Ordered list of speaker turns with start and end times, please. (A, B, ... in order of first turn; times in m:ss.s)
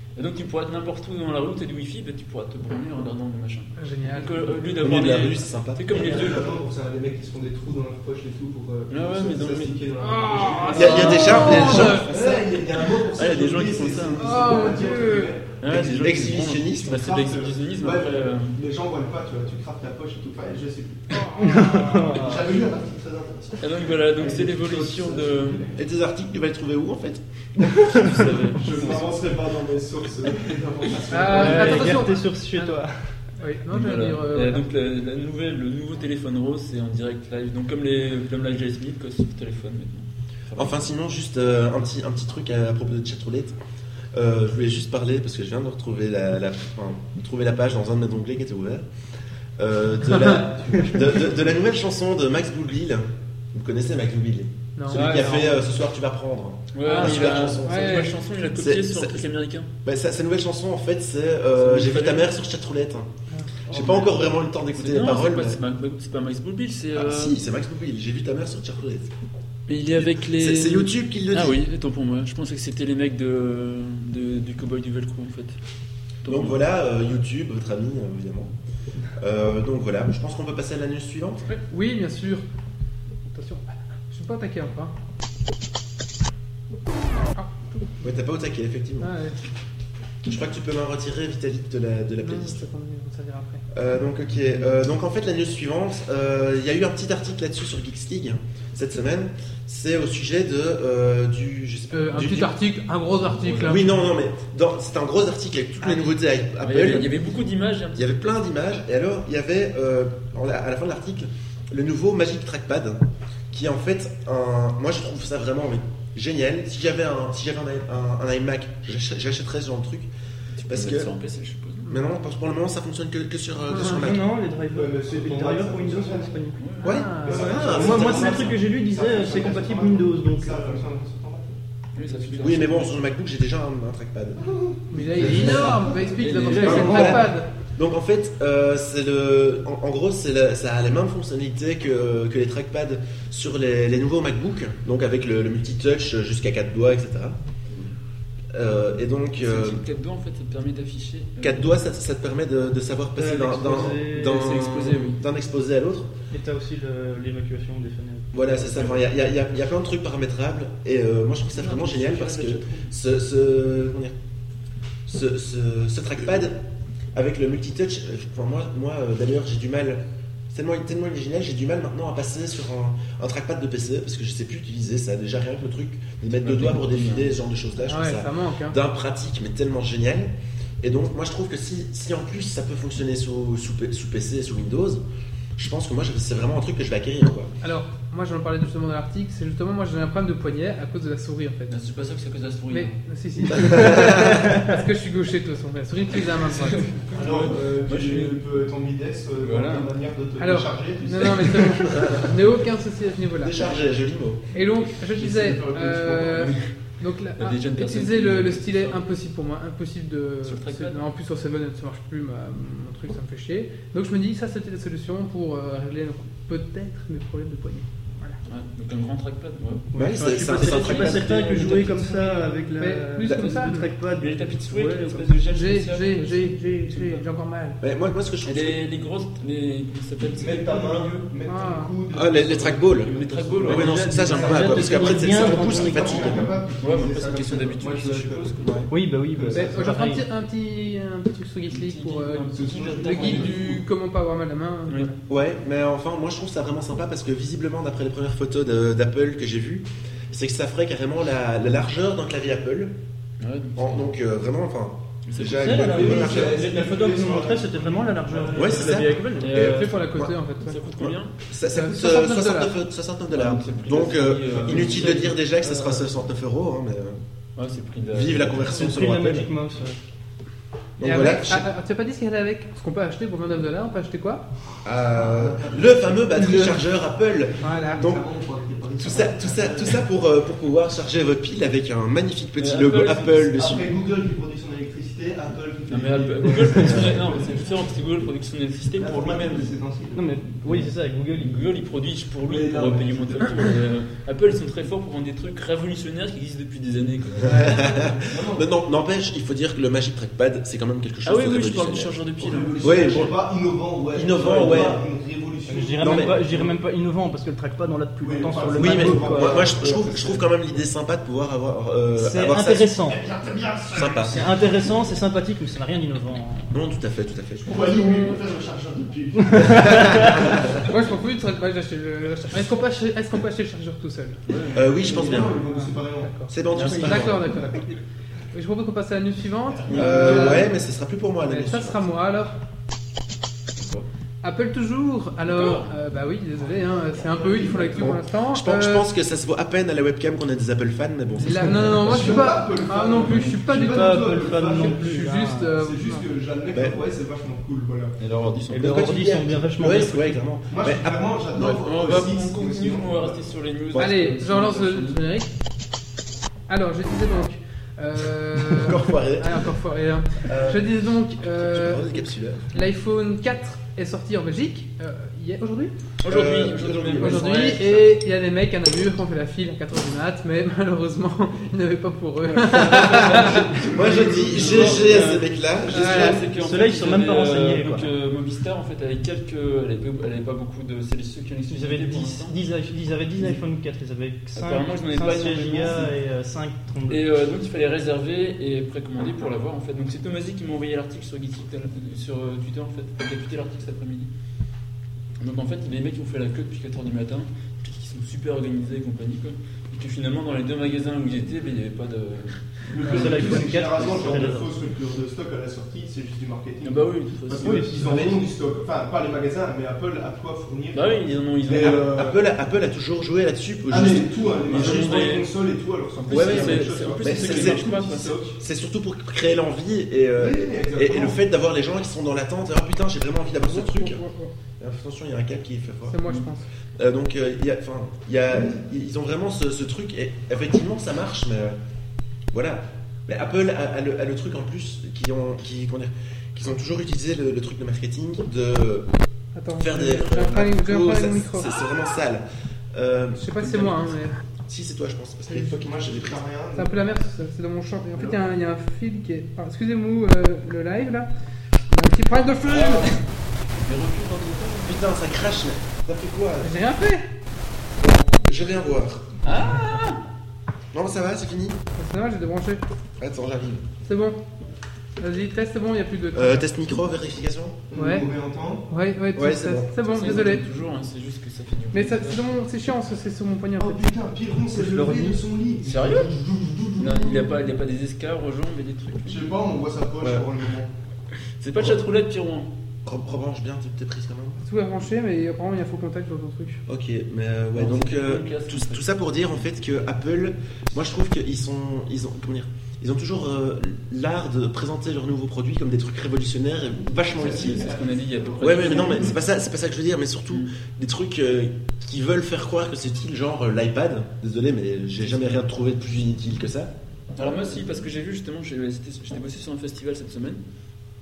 0:00.2-0:06.5 A
0:03.8-0:04.6 B
0:04.8-0:05.9 C
0:05.9-0:25.7 D
0:08.9-0:09.8 A
0:10.0-0:12.1 B
0:10.7-0:12.0 A
0:10.7-0:12.4 C
0:13.0-0:14.8 A
0:14.2-0:15.3 B
0:15.6-0:18.6 A
0:15.7-0:17.0 C
0:21.1-0:22.1 B
0:21.3-0:22.5 E
0:23.6-0:25.6 A
0:25.7-0:28.0 C
0:27.9-0:29.2 A
0:28.4-0:32.0 D
0:31.1-0:32.8 B
0:31.2-0:33.0 E
0:31.3-0:31.7 A
0:33.4-0:34.6 B
0:33.7-0:40.8 A
0:40.6-0:43.6 C
0:44.1-0:48.8 C
0:49.6-0:59.2 C
0:50.1-0:50.4 B
0:54.8-0:55.4 B
0:54.9-0:55.5 A
0:56.7-0:59.7 A
0:56.8-0:58.1 B
0:59.8-1:03.1 C
1:01.6-1:02.3 A
1:03.7-1:05.6 C
1:03.7-1:04.1 A
1:04.7-1:07.4 A
1:06.9-1:09.1 C
1:09.7-1:15.5 A
1:10.0-1:11.6 C
1:16.2-1:16.6 A
1:16.2-1:18.5 C
1:19.2-1:21.5 C
1:21.7-1:22.4 B
1:23.3-1:24.9 B
1:27.4-1:28.0 B
1:28.0-1:29.1 C
1:29.0-1:29.4 B
1:30.2-1:32.7 C
1:32.2-1:33.6 B
1:33.7-1:42.5 C
1:41.9-1:43.8 B
1:43.2-1:43.9 A
1:43.6-1:47.1 C
1:46.6-1:48.3 A
1:48.0-2:00.1 C
2:00.6-2:01.9 A
2:00.7-2:01.1 C
2:01.9-2:04.3 C
2:03.7-2:04.1 B
2:03.8-2:06.6 E
2:04.7-2:06.4 D
2:06.6-2:08.5 A
2:06.8-2:07.6 B
2:06.8-2:08.5 C
2:07.2-2:12.5 D
2:07.4-2:10.8 E
2:11.9-2:12.8 A
2:12.4-2:14.5 C
2:14.4-2:16.2 D
2:14.9-2:17.5 B
2:15.1-2:15.9 C
2:15.4-2:17.1 A
2:16.4-2:17.2 E
2:16.6-2:27.4 C
2:28.5-2:29.8 C
2:29.4-2:31.7 A
2:31.4-2:36.1 C
2:33.2-2:34.4 E
2:34.1-2:35.2 A
2:36.3-2:39.1 E
2:38.3-2:44.1 C
2:41.5-2:42.8 A
2:45.1-2:46.6 C
2:47.1-3:05.0 C
2:56.4-2:57.3 A
2:57.8-2:58.8 B
3:05.6-3:07.5 C
3:07.6-3:11.8 B
3:11.7-3:13.0 A
3:12.7-3:17.1 B
3:13.5-3:14.4 C
3:16.4-3:18.4 A
3:17.1-3:22.3 D
3:19.4-3:20.0 A
3:20.4-3:23.6 B
3:23.4-3:24.4 C
3:24.5-3:38.4 B
3:25.1-3:26.6 D
3:26.3-3:26.7 A
3:27.4-3:29.0 A
3:30.4-3:31.0 A
3:38.5-3:42.5 A
3:39.9-3:45.3 E
3:39.9-3:41.3 C
3:42.8-3:43.9 B
3:44.2-3:47.2 A
3:45.5-3:47.8 B
3:47.8-3:48.8 C
3:48.4-3:51.3 A
3:50.2-3:58.6 D
3:51.5-3:51.9 B
3:52.1-3:53.1 C
3:53.1-3:54.0 A
3:53.6-3:56.4 C
3:53.7-3:56.5 E
3:56.8-3:58.8 A
3:58.6-3:58.9 C
3:58.9-4:00.2 E
3:59.4-3:59.7 D
3:59.5-4:05.2 B
4:01.7-4:03.8 A
4:02.5-4:03.8 D
4:05.3-4:12.9 C
4:13.4-4:14.1 A
4:13.8-4:16.6 C
4:15.3-4:15.8 A
4:15.5-4:19.8 E
4:15.8-4:19.0 D
4:18.5-4:20.3 C
4:19.4-4:20.0 A
4:19.5-4:20.8 B
4:20.6-4:21.3 A
4:21.0-4:27.2 C
4:21.7-4:22.7 B
4:23.3-4:25.4 A
4:25.6-4:25.9 E
4:27.6-4:28.9 A
4:28.1-4:29.5 C
4:28.6-4:30.0 E
4:31.0-4:31.7 C
4:31.0-4:34.4 B
4:34.8-4:38.2 C
4:35.1-4:36.7 D
4:36.4-4:36.7 B
4:37.6-4:40.0 D
4:37.6-4:38.0 B
4:39.0-4:43.9 C
4:42.6-4:43.5 A
4:43.5-4:47.6 D
4:45.9-4:49.7 A
4:49.0-4:50.3 D
4:50.1-4:51.7 E
4:50.6-4:58.1 A
4:52.4-4:53.8 D
4:57.4-5:02.2 C
4:57.5-4:58.7 D
5:01.2-5:03.3 A
5:02.4-5:06.8 D
5:02.8-5:03.3 C
5:04.1-5:05.0 C
5:04.4-5:05.0 E
5:05.7-5:10.1 E
5:06.0-5:06.4 C
5:08.2-5:10.5 D
5:08.8-5:13.1 C
5:12.2-5:13.2 E
5:13.1-5:14.5 D
5:13.9-5:14.4 C
5:14.0-5:16.8 E
5:16.7-5:17.8 C
5:17.6-5:20.8 D
5:19.5-5:20.3 E
5:19.6-5:20.8 C
5:20.8-5:24.4 B
5:24.5-5:24.9 A
5:24.7-5:25.6 C
5:24.8-5:28.0 D
5:25.7-5:27.8 B
5:26.5-5:27.5 C
5:26.7-5:27.2 A
5:28.5-5:30.7 B
5:29.9-5:30.3 A
5:29.9-5:32.1 C
5:30.0-5:30.6 D
5:31.4-5:32.6 B
5:33.8-5:34.0 A
5:34.4-5:39.1 B
5:35.4-5:35.9 A
5:37.1-5:38.2 D
5:38.0-5:42.3 C
5:41.4-5:46.3 B
5:42.0-5:45.2 D
5:43.2-5:43.6 A
5:43.7-5:45.7 E
5:45.7-5:48.1 D
5:46.7-5:47.0 C
5:48.2-5:49.1 A
5:48.7-5:50.4 E
5:48.8-5:51.8 C
5:50.7-5:53.4 D
5:51.5-5:55.2 A
5:54.0-5:55.5 B
5:56.7-6:06.0 B
5:58.7-5:59.7 C
6:00.4-6:02.7 C
6:06.2-6:08.1 A
6:06.2-6:07.7 C
6:07.2-6:13.7 B
6:12.7-6:13.8 E
6:12.8-6:16.5 C
6:13.8-6:15.3 D
6:14.5-6:22.5 A
6:15.0-6:15.4 E
6:15.9-6:16.4 B
6:16.5-6:18.1 E
6:21.7-6:27.2 E
6:24.5-6:26.1 A
6:27.1-6:34.3 A
6:35.4-6:44.3 A
6:42.9-6:52.4 D
6:43.0-6:44.7 E
6:46.8-6:48.3 A
6:47.6-6:48.4 E
6:50.9-6:52.1 A
6:51.7-6:55.1 C
6:53.9-6:58.6 D
6:54.6-6:55.5 A
6:56.2-6:58.4 A
6:56.3-6:57.9 C
6:58.6-7:04.2 C
7:00.4-7:01.4 D
7:03.6-7:04.5 B
7:04.8-7:06.2 C
7:06.1-7:06.6 B
7:07.0-7:11.8 C
7:08.5-7:08.8 D
7:12.5-7:19.1 C
7:19.5-7:21.7 B
7:19.7-7:24.1 C
7:23.4-7:24.4 B
7:24.7-7:26.4 C
7:25.5-7:27.0 D
7:26.8-7:31.3 B
7:31.9-7:33.2 B
7:32.6-7:33.2 A
7:33.8-7:35.1 A
7:34.8-7:36.7 C
7:36.6-7:37.2 B
7:38.0-7:39.3 C
7:39.4-7:40.2 A
7:40.9-7:41.8 C
7:42.0-7:42.8 B
7:43.2-7:43.8 C
7:44.0-7:44.4 B
7:45.2-7:47.0 B
7:46.3-7:47.8 C
7:47.9-7:48.9 D
7:47.9-7:48.3 B
7:48.9-7:50.6 B
7:49.3-7:50.5 C
7:50.1-7:52.4 A
7:51.9-7:54.1 B
7:53.8-7:57.6 D
7:54.7-7:55.4 E
7:55.8-7:56.3 A
7:57.0-7:59.5 A
7:59.2-8:00.9 D
8:00.2-8:00.4 C
8:01.6-8:02.7 A
8:03.0-8:04.6 C
8:04.6-8:06.8 B
8:06.9-8:17.9 C
8:07.7-8:09.1 A
8:17.3-8:19.3 D
8:17.4-8:19.4 A
8:18.6-8:26.9 C
8:25.2-8:25.6 A
8:27.4-8:30.6 A